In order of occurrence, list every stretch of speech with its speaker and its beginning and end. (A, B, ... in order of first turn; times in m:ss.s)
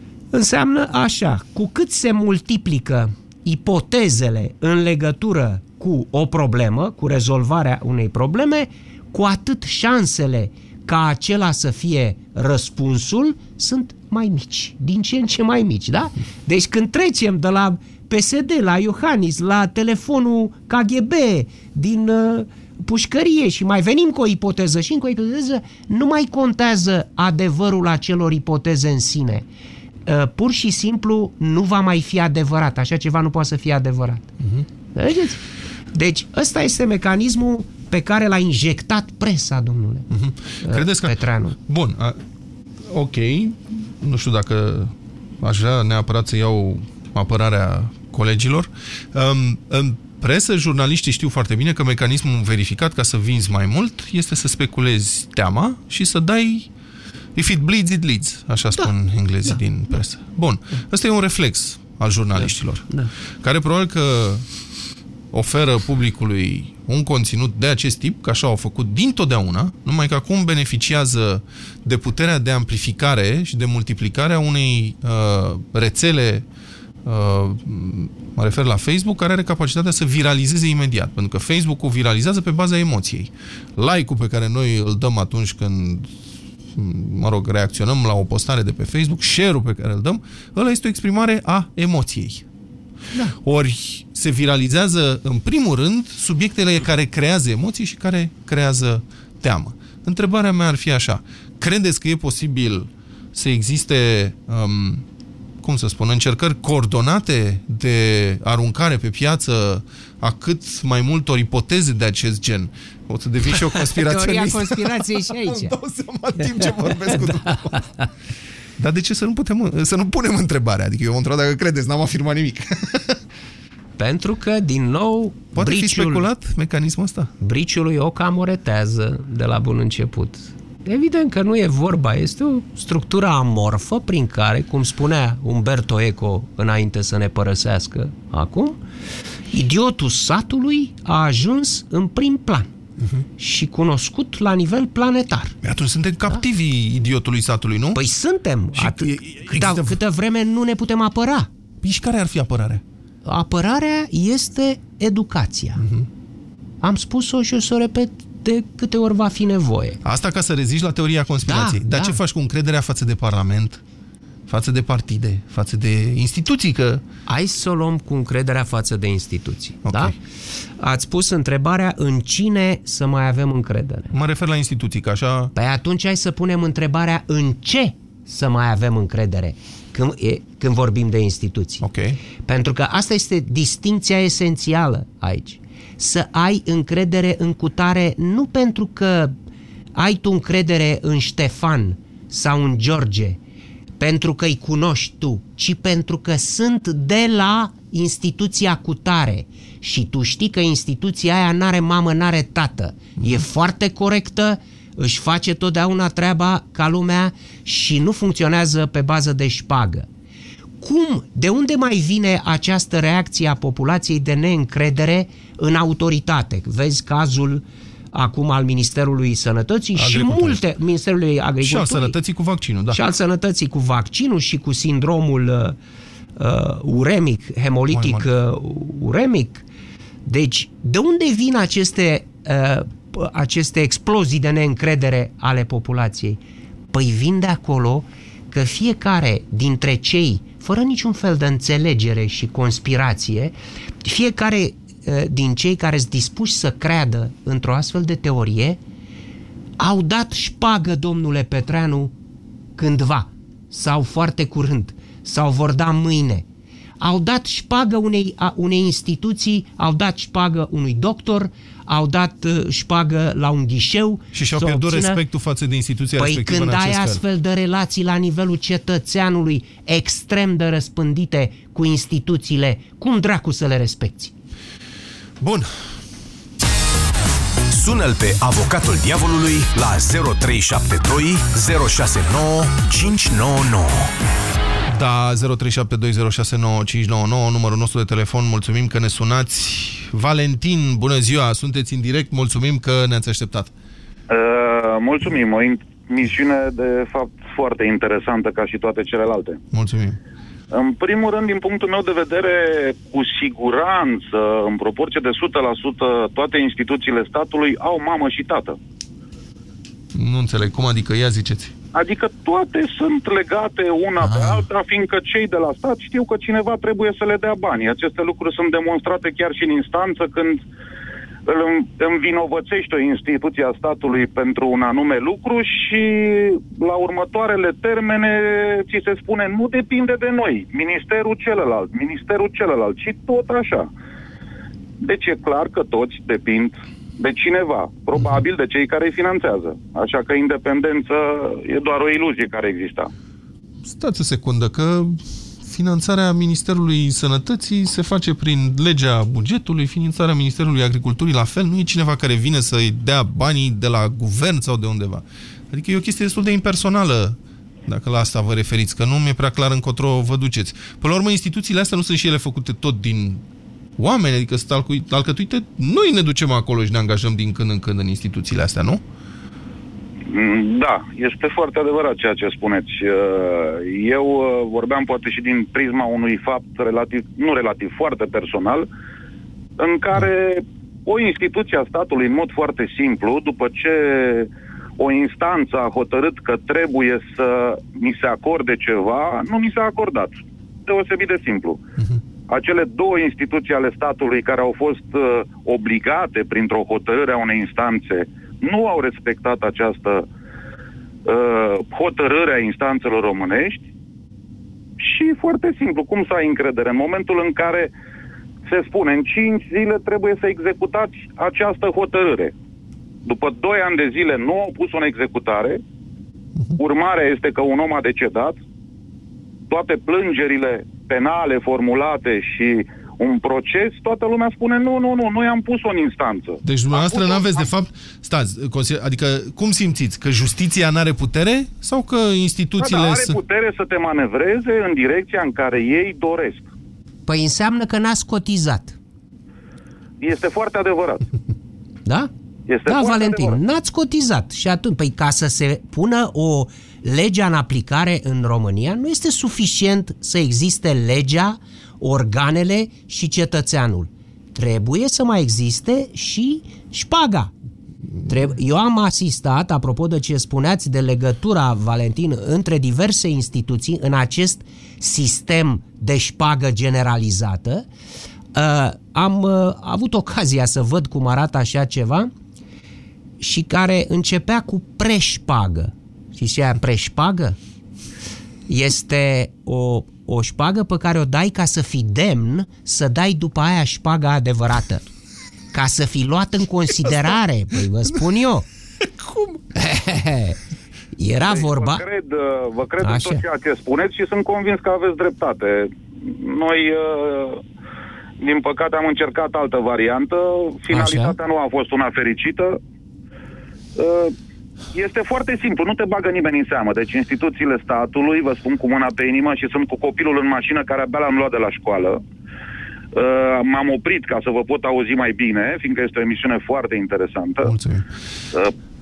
0:00.3-0:29.4 A
0:30.0-0:34.3 A
0:34.4-0:34.6 B
0:34.9-0:35.4 A
0:35.9-0:40.1 A
0:40.1-0:42.2 B
0:40.6-0:41.6 A
0:42.9-0:56.7 B
0:57.3-1:04.4 B
1:02.4-1:03.1 A
1:05.3-1:16.4 B
1:17.0-1:26.1 B
1:26.7-1:32.4 B
1:33.4-1:45.0 B
1:45.6-1:58.0 B
1:53.5-1:55.8 A
1:56.4-1:57.5 A
1:58.8-2:03.2 B
2:04.0-2:06.3 A
2:05.5-2:07.3 B
2:07.4-2:18.8 A
2:19.5-2:22.7 A
2:23.4-2:25.5 A
2:25.6-2:28.0 B
2:27.9-2:31.5 A
2:28.8-2:30.0 B
2:31.8-2:32.8 B
2:33.2-2:35.8 A
2:35.8-2:36.1 B
2:36.8-2:40.0 A
2:40.0-2:43.8 B
2:41.4-2:42.2 A
2:44.5-2:47.0 B
2:47.3-2:50.2 A
2:49.8-2:50.1 B
2:50.8-2:54.1 A
2:54.1-2:55.5 B
2:55.5-3:01.8 A
3:01.8-3:02.2 B
3:02.4-3:09.3 A
3:10.0-3:13.4 A
3:14.0-3:30.1 A
3:30.8-3:42.2 A
3:40.0-3:40.6 B
3:41.6-3:43.0 B
3:42.9-3:45.8 A
3:46.4-3:49.6 A
3:47.9-3:48.3 B
3:50.2-3:56.4 A
3:56.9-4:08.8 A
4:09.8-4:12.1 A
4:12.8-4:16.4 A
4:17.0-4:25.2 A
4:24.3-4:27.2 B
4:26.2-4:34.3 A
4:35.4-4:35.7 B
4:37.7-4:44.1 C
4:44.9-4:53.7 B
4:54.3-4:59.6 D
4:59.7-5:00.2 B
5:00.7-5:08.8 D
5:10.1-5:11.7 B
5:11.9-5:20.6 D
5:14.3-5:14.6 B
5:21.4-5:33.9 D
5:35.0-5:43.1 D
5:43.9-6:03.4 B
6:04.0-6:09.0 B
6:10.3-6:18.9 D
6:19.8-6:30.3 D
6:30.9-6:31.8 D
6:32.5-6:40.2 D
6:41.2-6:43.8 D
6:45.0-6:47.9 D
6:48.6-6:52.5 D
6:53.2-6:55.8 D
6:56.8-6:58.6 D
6:59.7-7:07.7 D
7:06.6-7:13.4 B
7:12.8-7:16.6 D
7:17.3-7:19.0 A
7:20.2-7:21.2 D
7:22.7-7:23.6 D
7:22.9-7:37.5 A
7:38.2-7:47.9 A
7:48.5-7:52.3 A
7:53.4-7:57.6 A
7:58.7-8:05.0 A
8:05.7-8:08.7 A
8:09.2-8:09.6 B
8:09.7-8:10.6 A
8:11.2-8:12.0 A
8:11.4-8:17.6 D
8:13.0-8:13.4 A
8:18.4-8:22.8 D
8:20.9-8:21.4 A
8:24.0-8:24.3 D
8:24.9-8:32.2 D
8:33.1-8:37.7 D
8:37.6-8:38.1 B